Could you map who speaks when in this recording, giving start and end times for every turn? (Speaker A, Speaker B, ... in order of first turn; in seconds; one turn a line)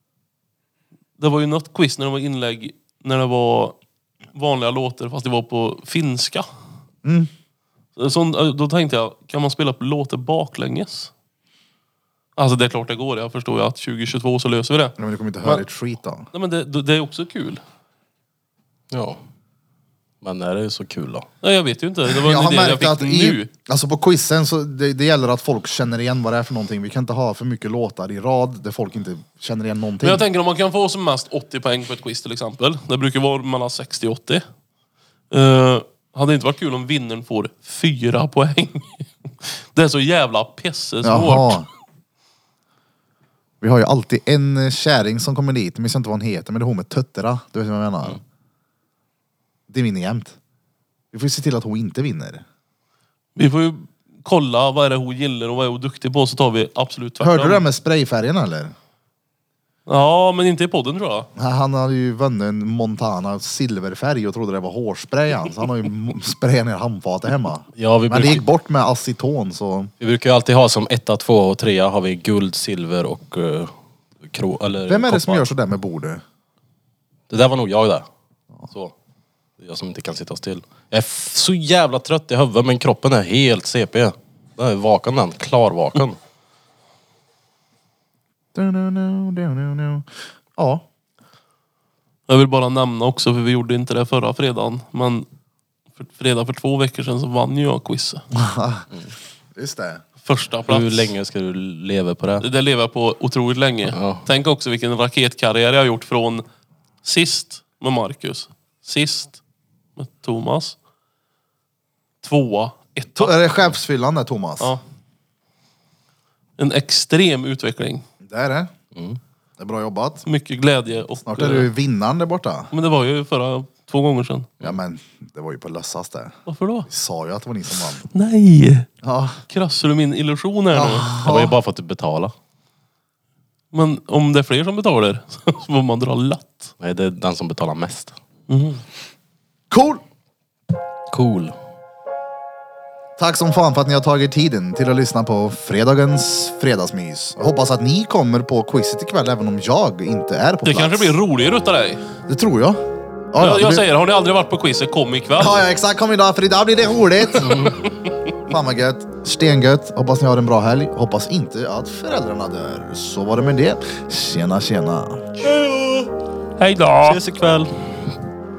Speaker A: 1.2-3.8
Speaker A: 4.3-6.5
Speaker B: 7.0-7.3
Speaker A: 8.0-11.1
Speaker A: 12.3-15.6
Speaker B: 15.0-16.3
Speaker A: 16.3-17.6
Speaker C: 18.9-19.2
Speaker C: 20.2-21.3
Speaker A: 21.4-23.5
Speaker B: 22.1-30.3
Speaker A: 30.0-34.4
Speaker A: 35.3-41.6
Speaker B: 41.0-41.7
Speaker B: 43.6-48.2
Speaker B: 49.7-50.4
Speaker B: 51.1-52.4
Speaker A: 53.4-57.6
Speaker B: 57.2-58.7
Speaker A: 59.9-61.3
Speaker B: 61.4-69.9
Speaker C: 67.8-68.5
Speaker C: 70.0-73.7
Speaker C: 74.2-75.5
Speaker B: 74.9-76.2
Speaker C: 77.3-78.1
Speaker C: 79.6-86.2
Speaker B: 88.5-90.8
Speaker A: 92.3-95.2
Speaker A: 96.0-98.2
Speaker B: 98.3-98.9
Speaker B: 99.5-100.0
Speaker A: 100.2-101.1
Speaker C: 100.7-102.5
Speaker A: 102.4-106.4
Speaker C: 103.9-104.2
Speaker A: 107.0-109.4
Speaker A: 110.0-110.8
Speaker A: 112.2-113.3
Speaker B: 113.2-114.7
Speaker A: 116.6-118.0
Speaker B: 118.2-118.7
Speaker B: 119.6-120.2
Speaker A: 120.2-121.7
Speaker B: 121.2-122.7
Speaker A: 122.7-124.5
Speaker B: 124.6-128.1
Speaker A: 126.5-126.9
Speaker A: 128.1-128.9
Speaker B: 129.0-129.4
Speaker A: 129.5-131.1
Speaker B: 130.7-131.6
Speaker C: 131.2-132.3
Speaker A: 133.7-136.7
Speaker C: 136.8-138.2
Speaker A: 138.5-138.8
Speaker B: 139.7-140.0
Speaker C: 141.1-141.5
Speaker B: 143.2-151.2
Speaker A: 150.6-152.0
Speaker B: 152.3-153.8
Speaker A: 153.4-155.6
Speaker B: 155.4-157.8
Speaker B: 158.5-165.3
Speaker C: 165.8-166.1
Speaker A: 166.6-167.2
Speaker C: 167.0-168.0